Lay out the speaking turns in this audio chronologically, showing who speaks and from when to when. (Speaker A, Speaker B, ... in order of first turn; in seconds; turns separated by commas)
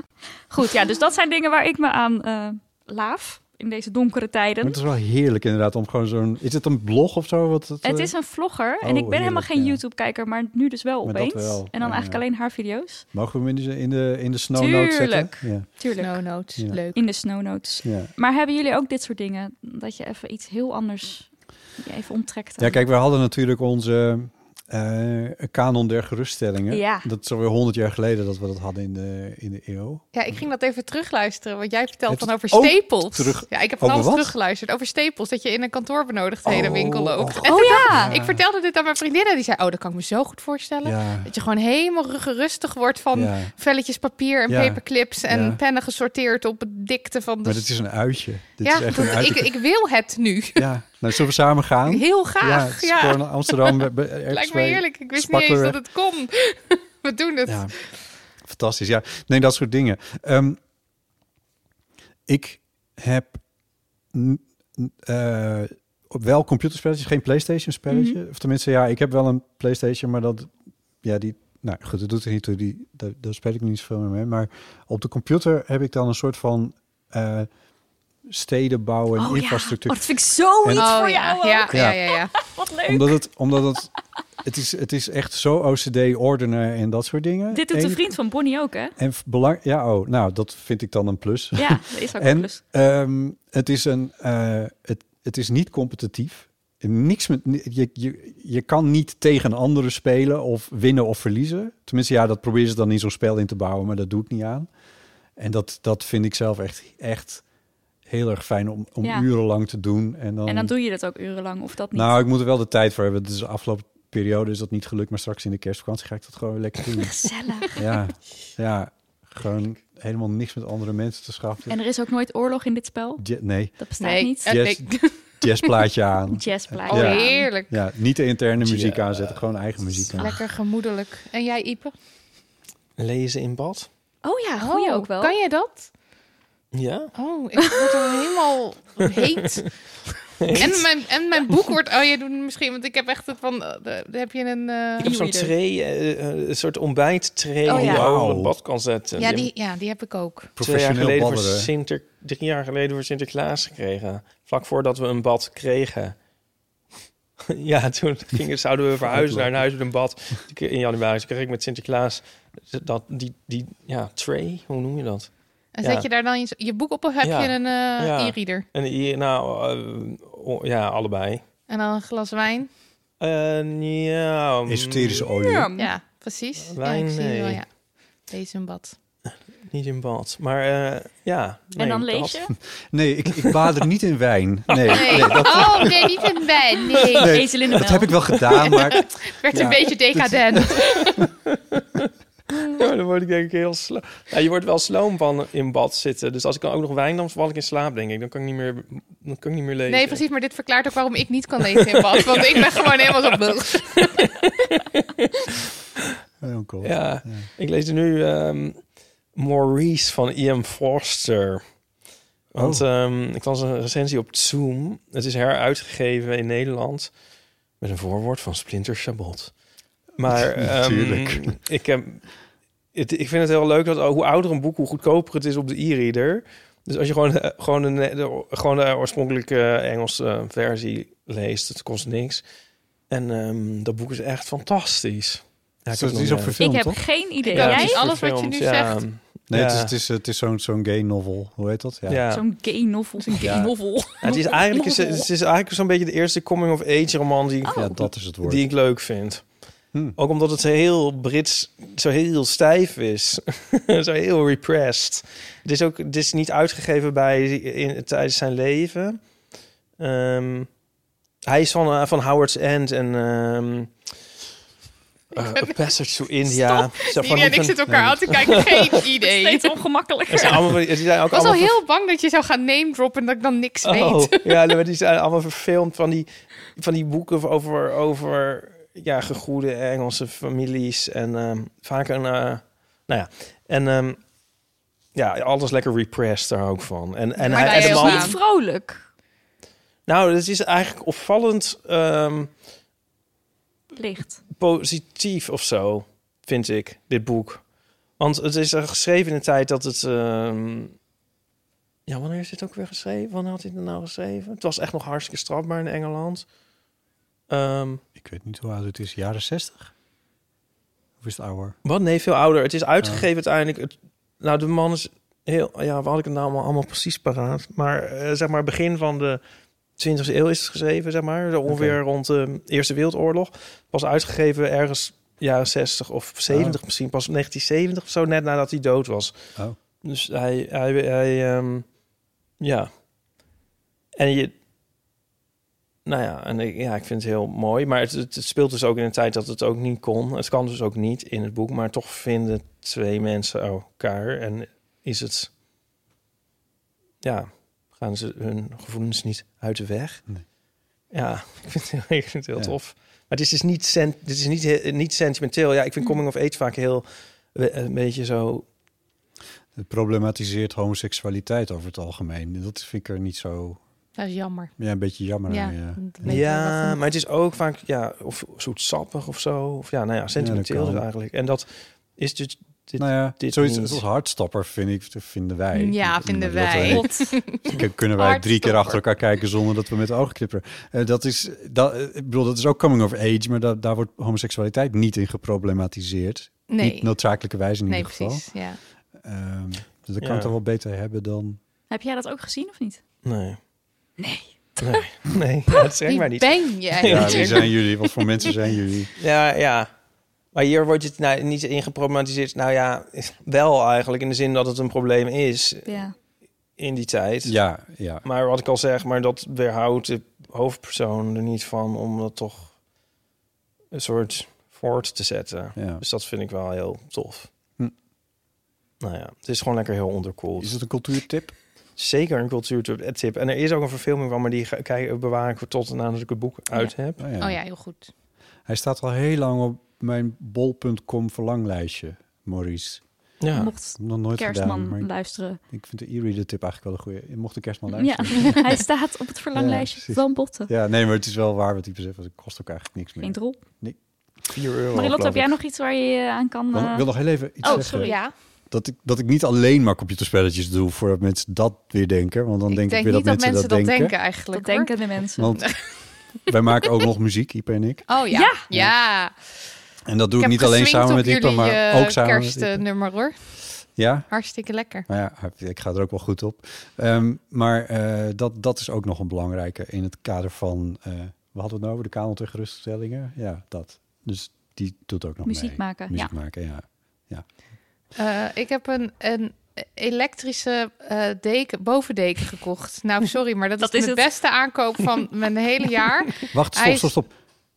Speaker A: 0.5-4.8, Speaker B: 4.6-8.1, Speaker A: 7.8-13.1, Speaker B: 8.8-9.8, Speaker B: 11.1-12.3, Speaker B: 13.1-15.7, Speaker A: 14.6-16.2, Speaker C: 16.0-17.0, Speaker A: 16.9-22.8, Speaker B: 17.8-18.1, Speaker B: 22.6-30.4, Speaker A: 26.7-27.1, Speaker C: 30.1-47.6, Speaker B: 32.1-34.3, Speaker B: 36.5-38.4, Speaker A: 37.5-38.2, Speaker B: 40.8-41.3, Speaker B: 43.1-43.5, Speaker B: 44.5-45.6, Speaker B: 47.5-49.6, Speaker C: 48.6-50.7, Speaker B: 50.6-55.8, Speaker C: 51.9-57.7, Speaker B: 57.5-57.8, Speaker B: 58.4-60.6, Speaker B: 62.3-63.4, Speaker B: 64.1-77.5, Speaker A: 67.9-68.2, Speaker B: 78.3-80.1, Speaker A: 79.2-83.1, Speaker B: 80.6-80.9, Speaker C: 80.8-82.4, Speaker B: 81.7-82.0, Speaker B: 82.9-83.9, Speaker B: 84.4-88.0, Speaker A: 87.5-88.9, Speaker B: 89.0-104.7, Speaker A: 91.6-92.6, Speaker B: 105.4-107.4, Speaker B: 108.1-110.7, Speaker A: 110.5-112.2, Speaker B: 111.9-121.8, Speaker A: 117.0-118.0, Speaker A: 121.7-124.6, Speaker B: 123.2-123.8, Speaker C: 124.0-125.7, Speaker B: 124.4-130.3, Speaker A: 126.3-127.5, Speaker C: 126.9-127.7, Speaker D: 128.6-130.1, Speaker C: 130.2-131.9, Speaker D: 133.0-133.9, Speaker A: 134.2-135.4, Speaker C: 134.6-135.9, Speaker D: 136.7-137.1, Speaker C: 137.2-139.8, Speaker D: 140.4-140.9, Speaker C: 140.6-145.1, Speaker A: 145.0-145.5, Speaker D: 145.0-149.5, Speaker C: 147.7-148.1, Speaker A: 147.7-147.9, Speaker B: 147.8-148.6, Speaker C: 149.2-150.6, Speaker B: 150.6-151.7, Speaker D: 150.6-156.2, Speaker D: 157.5-166.1, Speaker B: 159.1-159.6, Speaker C: 165.8-168.6, Speaker D: 167.2-171.4, Speaker C: 171.7-172.7, Speaker D: 173.2-175.3, Speaker B: 174.7-175.7, Speaker A: 175.3-175.9, Speaker C: 175.8-178.9, Speaker D: 176.7-177.6, Speaker D: 179.7-182.4, Speaker A: 181.8-182.5, Speaker B: 182.8-186.0, Speaker D: 183.4-183.6, Speaker D: 184.7-186.1, Speaker C: 184.9-187.4, Speaker B: 187.1-191.3, Speaker A: 187.2-188.3, Speaker D: 188.4-189.0, Speaker C: 188.6-191.2, Speaker D: 190.8-192.1, Speaker D: 192.7-200.2, Speaker C: 199.9-204.3, Speaker D: 201.8-205.6, Speaker B: 206.4-207.5, Speaker D: 206.8-208.8, Speaker D: 209.3-211.6, Speaker D: 212.5-217.1, Speaker B: 212.6-212.8, Speaker D: 217.8-219.5, Speaker D: 220.2-222.2, Speaker B: 220.6-221.6, Speaker D: 222.9-232.4, Speaker D: 233.1-236.6, Speaker B: 235.9-237.1, Speaker A: 236.6-238.1, Speaker C: 237.5-239.0, Speaker D: 237.5-239.9, Speaker B: 239.5-242.2, Speaker D: 242.1-242.4, Speaker A: 242.3-245.3, Speaker B: 243.4-243.7, Speaker D: 244.2-249.5, Speaker A: 247.7-248.0, Speaker B: 247.7-248.7, Speaker D: 250.2-259.2, Speaker D: 260.0-260.7, Speaker D: 261.5-264.0, Speaker D: 265.3-269.0, Speaker C: 265.4-265.8, Speaker C: 266.4-269.7, Speaker A: 269.2-270.7, Speaker D: 270.3-271.8, Speaker C: 271.3-274.8, Speaker D: 273.8-284.2, Speaker D: 285.1-288.4, Speaker C: 287.4-288.4, Speaker A: 287.5-289.0, Speaker D: 290.1-292.5, Speaker A: 293.9-294.4, Speaker D: 294.5-297.6, Speaker D: 298.2-300.9, Speaker D: 302.1-306.5, Speaker D: 307.5-308.0, Speaker B: 308.2-309.9, Speaker B: 311.2-311.8, Speaker D: 311.9-319.4, Speaker D: 320.0-329.4, Speaker B: 321.7-322.0, Speaker B: 326.5-326.8, Speaker D: 330.0-331.9, Speaker D: 332.6-332.9, Speaker D: 334.2-334.5, Speaker D: 336.1-345.5, Speaker D: 347.2-350.2, Speaker D: 351.1-358.7, Speaker B: 359.8-363.8, Speaker C: 364.2-364.8, Speaker B: 364.8-366.3, Speaker C: 365.5-367.0, Speaker D: 366.2-374.0, Speaker B: 370.4-371.0, Speaker B: 373.0-388.4, Speaker C: 375.8-379.0, Speaker A: 376.9-377.1, Speaker C: 386.7-387.1, Speaker C: 387.9-388.8, Speaker B: 389.2-391.6, Speaker D: 390.2-390.5, Speaker A: 391.9-393.0, Speaker D: 393.2-393.6, Speaker A: 394.2-395.1, Speaker D: 394.8-397.7, Speaker C: 396.1-397.7, Speaker B: 397.1-399.1, Speaker D: 399.2-399.9, Speaker D: 400.5-406.0, Speaker A: 405.9-406.1, Speaker D: 406.8-407.6, Speaker B: 407.4-408.2, Speaker D: 408.2-412.7, Speaker D: 413.9-417.5, Speaker B: 415.8-416.0, Speaker D: 419.0-420.7, Speaker B: 420.6-421.6, Speaker D: 422.0-427.2, Speaker B: 427.2-427.6, Speaker C: 427.4-428.1, Speaker B: 428.7-433.0, Speaker D: 433.4-433.7, Speaker A: 433.5-435.6, Speaker B: 434.0-435.1, Speaker B: 435.6-438.8, Speaker A: 437.9-440.7, Speaker B: 439.6-444.0, Speaker A: 443.2-443.6, Speaker D: 444.5-445.5, Speaker A: 444.9-448.2, Speaker B: 446.7-448.2, Speaker C: 447.6-448.3, Speaker B: 448.7-454.1, Speaker C: 452.7-454.9, Speaker A: 454.5-455.6, Speaker B: 455.4-455.6, Speaker B: 456.5-458.1, Speaker C: 458.1-459.3, Speaker A: 458.3-458.6, Speaker B: 458.7-458.9, Speaker B: 460.1-462.8, Speaker C: 460.4-463.3, Speaker B: 464.0-464.3, Speaker C: 464.3-465.1, Speaker B: 465.1-477.5, Speaker A: 475.4-476.3, Speaker C: 478.1-487.1, Speaker A: 483.8-484.2, Speaker B: 486.5-487.3